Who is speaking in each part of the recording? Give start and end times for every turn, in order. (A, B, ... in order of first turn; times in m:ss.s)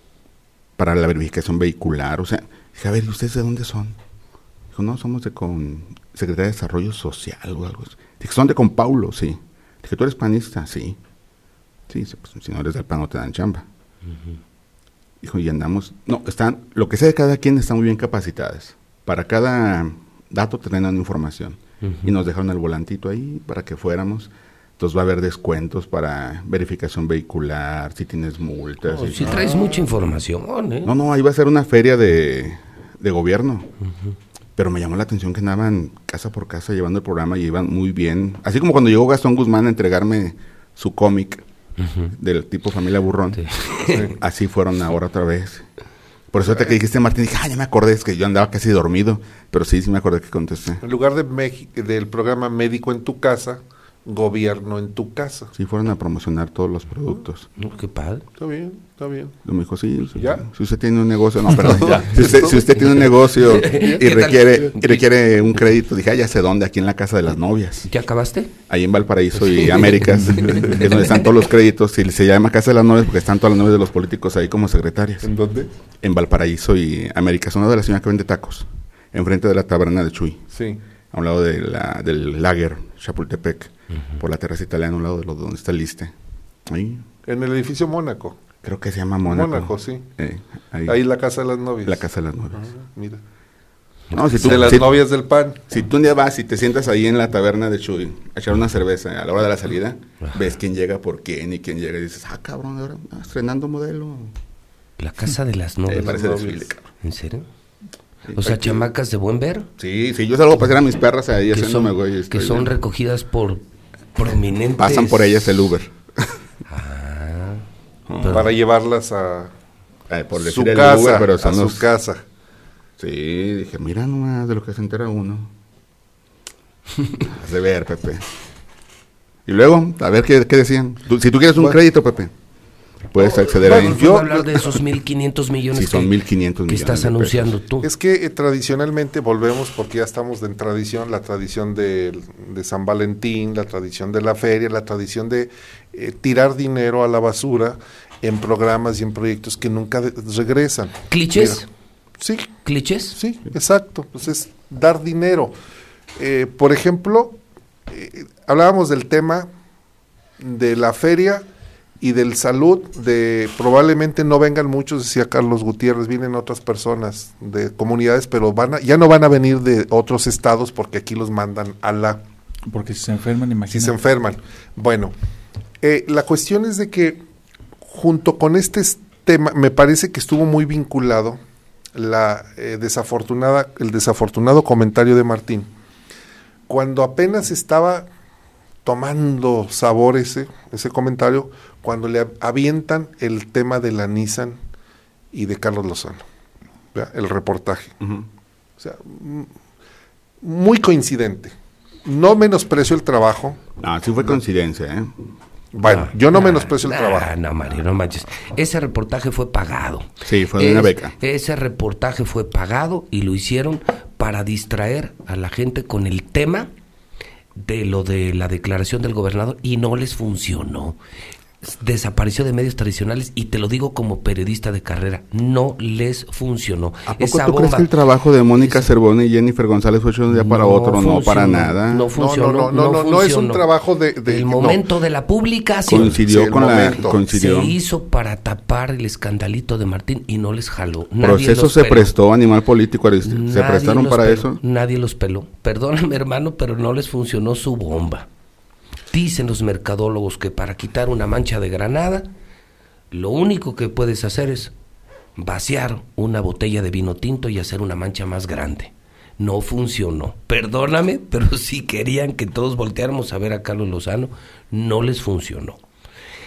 0:00.8-0:04.0 A
0:04.7-0:11.0 A
0:11.9-0:13.7 A
0:15.2-0:29.7 A
0:28.9-0:30.9 B
0:30.8-0:33.7 A
0:34.6-0:41.4 A
0:41.8-0:42.1 B
0:42.1-0:45.7 A
0:43.4-0:44.2 B
0:46.3-0:50.8 A
0:50.8-0:55.5 C
0:55.6-0:57.5 A
0:57.6-0:58.3 B
0:58.4-0:59.4 C
0:59.4-1:07.9 A
1:00.1-1:00.5 C
1:01.6-1:02.7 C
1:01.7-1:02.0 D
1:03.4-1:05.0 B
1:03.5-1:04.0 C
1:07.9-1:08.5 B
1:08.7-1:15.3 A
1:09.4-1:11.2 B
1:10.2-1:10.5 D
1:15.2-1:15.7 C
1:16.0-1:20.4 A
1:20.5-1:20.8 C
1:21.1-1:26.1 A
1:26.6-1:27.0 A
1:27.2-1:28.4 C
1:28.6-1:31.0 A
1:29.3-1:30.0 C
1:30.9-1:33.2 C
1:31.8-1:32.7 A
1:34.1-1:34.8 B
1:34.1-1:35.0 A
1:34.4-1:35.7 C
1:35.7-1:44.3 A
1:45.0-1:46.3 B
1:45.9-1:46.9 A
1:45.9-1:46.7 C
1:47.0-1:47.5 B
1:48.3-1:48.9 A
1:48.4-1:49.7 B
1:49.8-1:52.7 A
1:51.5-1:53.6 B
1:54.2-1:55.3 B
1:54.8-1:56.4 A
1:56.7-1:57.7 B
1:58.1-1:58.5 A
1:58.2-1:58.6 B
1:58.2-1:59.5 C
2:00.1-2:01.9 A
2:00.4-2:02.2 C
2:03.0-2:05.5 A
2:07.2-2:08.3 A
2:09.5-2:12.3 A
2:13.1-2:14.2 A
2:13.2-2:16.2 B
2:13.6-2:14.8 C
2:15.7-2:17.6 A
2:16.7-2:17.9 B
2:17.8-2:31.6 C
2:31.1-2:31.7 B
2:32.2-2:32.5 C
2:32.6-2:33.2 B
2:33.2-2:35.5 C
2:36.2-2:39.5 C
2:40.4-2:41.4 C
2:42.0-2:52.2 C
2:52.7-2:54.0 D
2:53.7-2:55.1 C
2:55.8-2:57.2 C
2:57.8-3:01.4 C
3:02.0-3:05.7 C
3:06.7-3:08.1 C
3:08.8-3:14.6 C
3:15.3-3:16.2 C
3:16.9-3:18.0 C
3:18.0-3:18.3 A
3:18.8-3:19.5 C
3:20.4-3:23.7 C
3:23.8-3:25.1 A
3:25.7-3:27.3 C
3:25.8-3:36.7 B
3:30.2-3:31.2 A
3:37.6-3:41.0 B
3:41.6-3:47.9 B
3:47.1-3:52.1 A
3:48.6-3:48.9 B
3:50.3-3:53.7 B
3:52.1-3:54.8 C
3:54.3-3:56.2 B
3:55.9-3:57.8 A
3:55.9-3:57.2 C
3:57.3-4:02.1 B
4:01.2-4:04.6 A
4:03.2-4:08.3 B
4:09.1-4:12.3 B
4:13.1-4:14.7 B
4:15.4-4:25.8 B